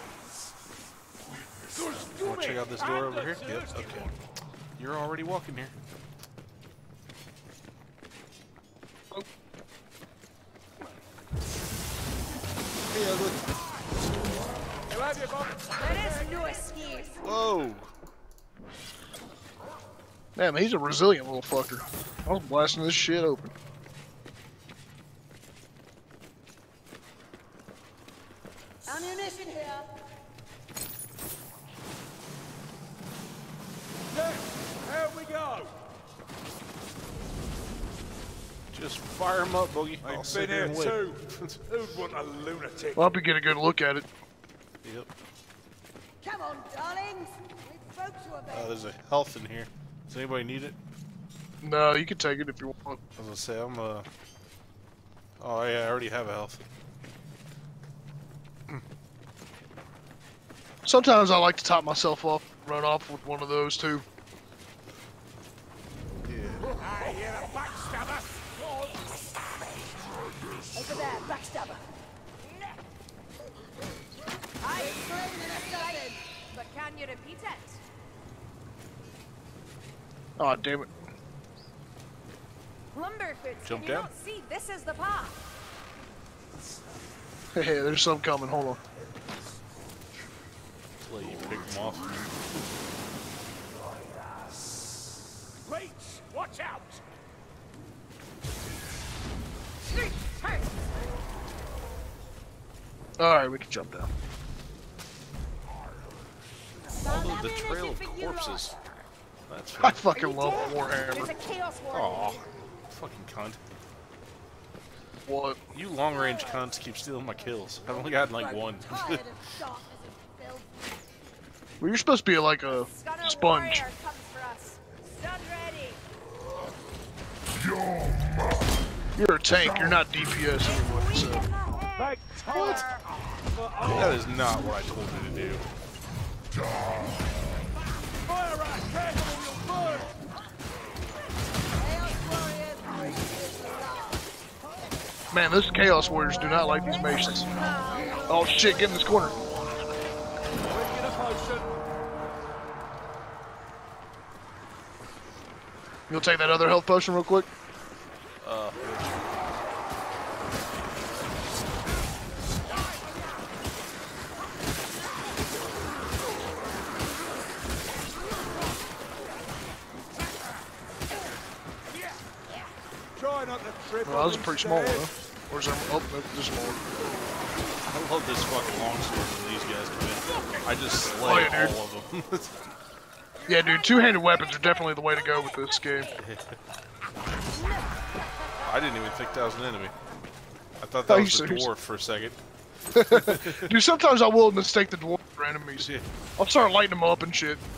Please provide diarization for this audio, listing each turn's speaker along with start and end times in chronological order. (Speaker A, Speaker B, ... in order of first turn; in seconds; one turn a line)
Speaker A: 1.7-4.1
Speaker B: 1.9-4.1
Speaker B: 4.8-5.7
Speaker B: 12.9-13.4
Speaker A: 14.9-16.4
Speaker C: 15.7-17.3
Speaker B: 17.2-17.9
Speaker D: 20.4-23.5
Speaker E: 28.8-29.9
Speaker A: 34.1-35.8
Speaker B: 38.7-41.6
Speaker A: 40.0-43.1
Speaker D: 42.9-44.1
Speaker B: 44.8-45.1
Speaker E: 46.2-48.8
Speaker B: 48.5-50.8
Speaker D: 51.6-53.0
Speaker B: 53.2-54.1
Speaker B: 55.4-56.6
Speaker D: 60.8-64.0
Speaker B: 66.2-66.7
Speaker A: 66.8-69.1
Speaker E: 70.7-71.8
Speaker C: 74.6-77.8
Speaker E: 74.7-76.2
Speaker D: 80.4-80.9
Speaker C: 82.9-85.4
Speaker B: 83.6-84.1
Speaker D: 87.5-88.8
Speaker B: 91.0-92.4
Speaker A: 95.6-97.0
Speaker C: 99.8-100.9
Speaker D: 103.2-104.1
Speaker E: 107.0-108.8
Speaker B: 107.0-108.8
Speaker B: 109.5-110.1
Speaker D: 109.8-111.3
Speaker C: 110.1-112.4
Speaker B: 111.9-113.6
Speaker D: 115.2-115.6
Speaker B: 115.7-119.2
Speaker E: 116.1-116.5
Speaker E: 117.5-120.8
Speaker D: 121.8-123.8
Speaker C: 122.7-126.0
Speaker D: 129.2-131.4
Speaker C: 130.6-133.0
Speaker A: 132.0-132.8
Speaker B: 132.4-132.8
Speaker A: 133.5-134.3
Speaker B: 133.9-135.7
Speaker A: 138.2-140.2
Speaker E: 141.7-144.8
Speaker D: 145.3-147.5
Speaker C: 146.6-148.8
Speaker E: 146.9-148.3
Speaker D: 148.3-149.4
Speaker A: 150.6-151.7
Speaker D: 156.1-157.5
Speaker B: 158.4-159.2
Speaker A: 173.2-175.1
Speaker D: 174.0-176.8
Speaker B: 177.8-182.5
Speaker D: 181.2-181.7
Speaker D: 183.5-186.1
Speaker B: 186.2-186.6
Speaker B: 188.6-189.9
Speaker B: 190.8-192.4
Speaker D: 191.1-191.7
Speaker D: 192.9-197.6
Speaker B: 193.1-193.7
Speaker B: 195.8-196.1